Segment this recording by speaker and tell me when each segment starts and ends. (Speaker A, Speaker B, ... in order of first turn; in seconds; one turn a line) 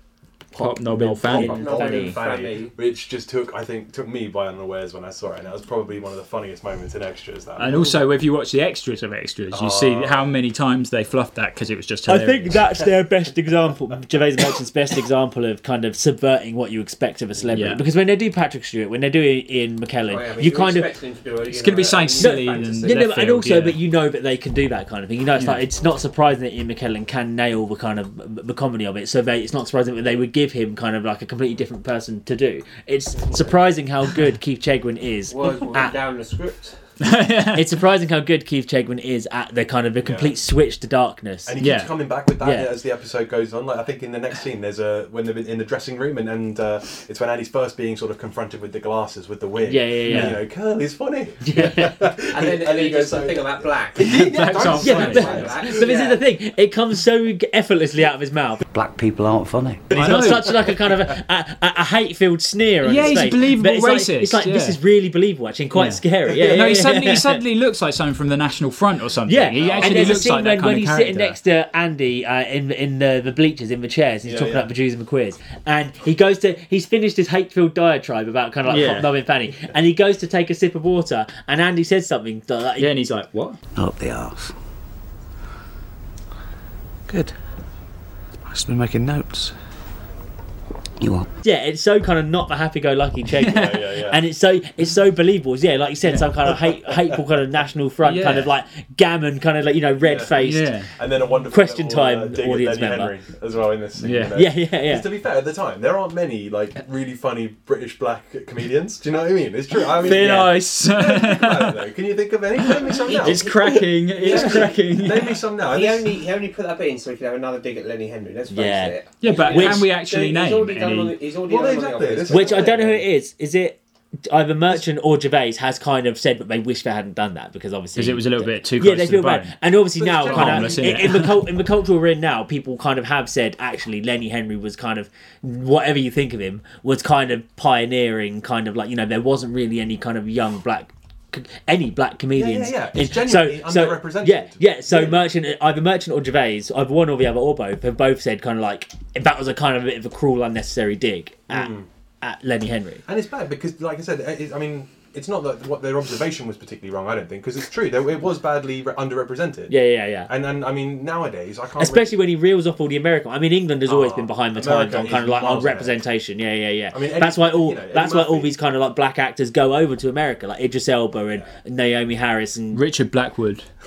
Speaker A: 0.5-2.2
Speaker B: 0.6-1.6
Speaker C: 1.2-7.9
Speaker D: 1.4-2.7
Speaker B: 7.6-12.6
Speaker C: 9.5-10.4
Speaker A: 12.1-20.9
Speaker B: 17.5-17.8
Speaker D: 20.1-23.0
Speaker B: 21.5-23.8
Speaker A: 22.2-36.0
Speaker B: 25.4-25.6
Speaker D: 33.2-33.5
Speaker D: 35.3-36.8
Speaker B: 37.0-37.7
Speaker A: 37.5-41.6
Speaker C: 40.0-40.4
Speaker C: 41.5-55.8
Speaker B: 41.6-41.9
Speaker A: 42.4-42.7
Speaker A: 49.6-50.4
Speaker B: 50.1-50.4
Speaker A: 51.5-51.9
Speaker D: 52.3-56.2
Speaker B: 54.0-55.5
Speaker A: 54.8-58.6
Speaker E: 58.7-59.9
Speaker C: 59.9-60.8
Speaker B: 59.9-60.5
Speaker A: 59.9-67.4
Speaker B: 62.8-64.8
Speaker B: 65.7-71.4
Speaker C: 66.3-66.6
Speaker A: 69.3-83.0
Speaker C: 69.5-70.4
Speaker C: 74.2-74.7
Speaker B: 78.7-79.1
Speaker B: 82.8-83.6
Speaker E: 83.8-84.5
Speaker E: 87.1-87.3
Speaker E: 88.5-89.5
Speaker E: 91.0-91.3
Speaker A: 91.4-100.8
Speaker C: 93.5-94.2
Speaker B: 98.0-98.5
Speaker C: 100.0-116.2
Speaker B: 100.4-100.9
Speaker A: 101.5-103.1
Speaker B: 104.0-104.4
Speaker A: 104.3-105.1
Speaker B: 110.0-111.8
Speaker A: 110.1-110.5
Speaker B: 113.1-115.4
Speaker D: 114.2-114.7
Speaker D: 115.7-122.8
Speaker A: 118.5-119.8
Speaker B: 119.2-121.2
Speaker C: 121.5-123.1
Speaker A: 122.3-153.0
Speaker B: 128.0-131.4
Speaker C: 130.0-131.2
Speaker C: 142.3-145.3
Speaker C: 151.5-151.9
Speaker C: 153.1-162.2
Speaker A: 159.7-160.3
Speaker A: 161.8-172.8
Speaker C: 163.9-166.0
Speaker C: 166.9-168.6
Speaker B: 172.7-173.7